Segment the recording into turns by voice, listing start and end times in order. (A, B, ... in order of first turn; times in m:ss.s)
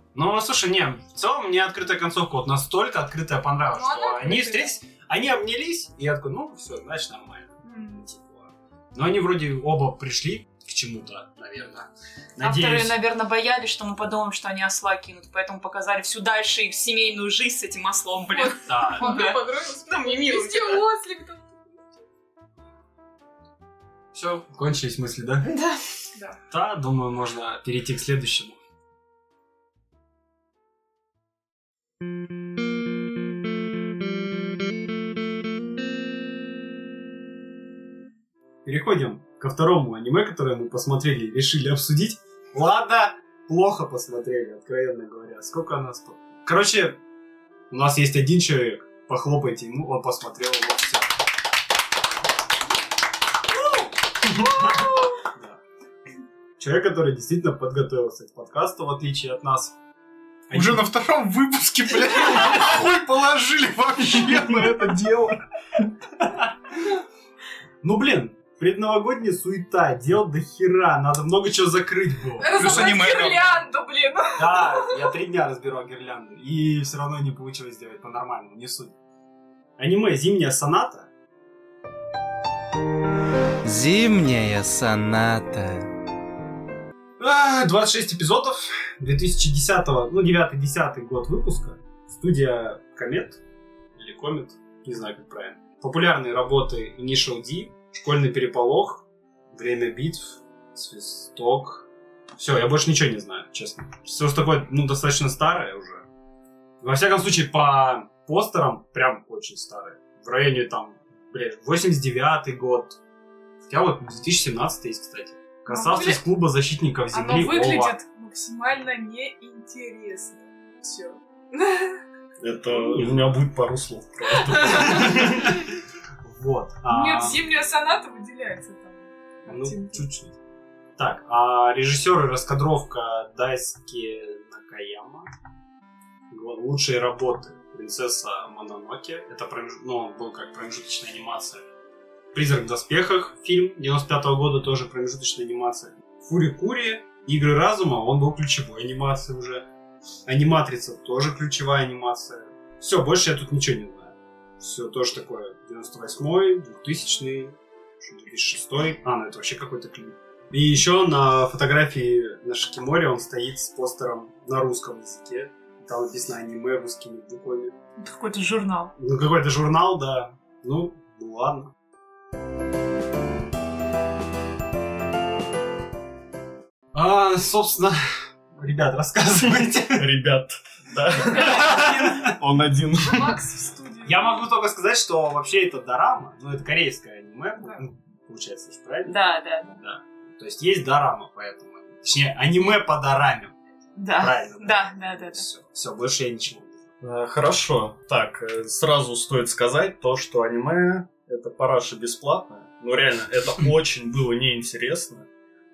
0:00.2-0:13.0 A
0:03.7-0:04.7 B
0:07.6-0:08.0 B
0:12.4-0:20.9 C
0:18.3-0:22.0 B
0:18.7-0:19.2 A
0:24.1-0:25.5 A
0:25.5-0:25.7 C
0:26.5-0:28.6 A
0:38.6-0:47.0 A
0:47.7-0:51.1 A
0:55.3-0:55.6 A
0:56.6-0:59.8 A
1:00.5-1:00.8 A
1:00.5-1:05.9 D
1:07.8-1:13.0 A
1:12.4-1:15.1 B
1:12.5-1:13.6 D
1:14.4-1:18.9 A
1:19.8-1:21.1 A
1:23.6-1:25.9 E
1:27.2-1:33.4 A
1:34.0-1:46.1 A
1:46.8-1:53.0 A
1:53.7-1:58.0 A
1:55.7-1:56.2 B
1:57.1-2:02.0 B
2:02.4-2:05.6 F
2:02.7-2:03.4 A
2:04.5-2:05.2 B
2:04.9-2:05.4 A
2:06.2-2:07.4 A
2:06.9-2:10.0 B
2:09.5-2:10.3 A
2:11.0-2:15.3 A
2:16.3-2:21.6 A
2:22.3-2:29.7 A
2:30.3-2:47.8 A
2:48.0-2:48.9 C
2:49.0-2:51.7 A
2:56.9-3:00.1 A
2:59.9-3:03.4 F
3:01.3-3:01.9 B
3:01.4-3:02.3 A
3:03.0-3:04.5 B
3:04.0-3:09.2 A
3:09.1-3:09.8 C
3:09.7-3:13.6 A
3:14.0-3:15.5 C
3:14.2-3:16.8 A
3:17.0-3:25.3 F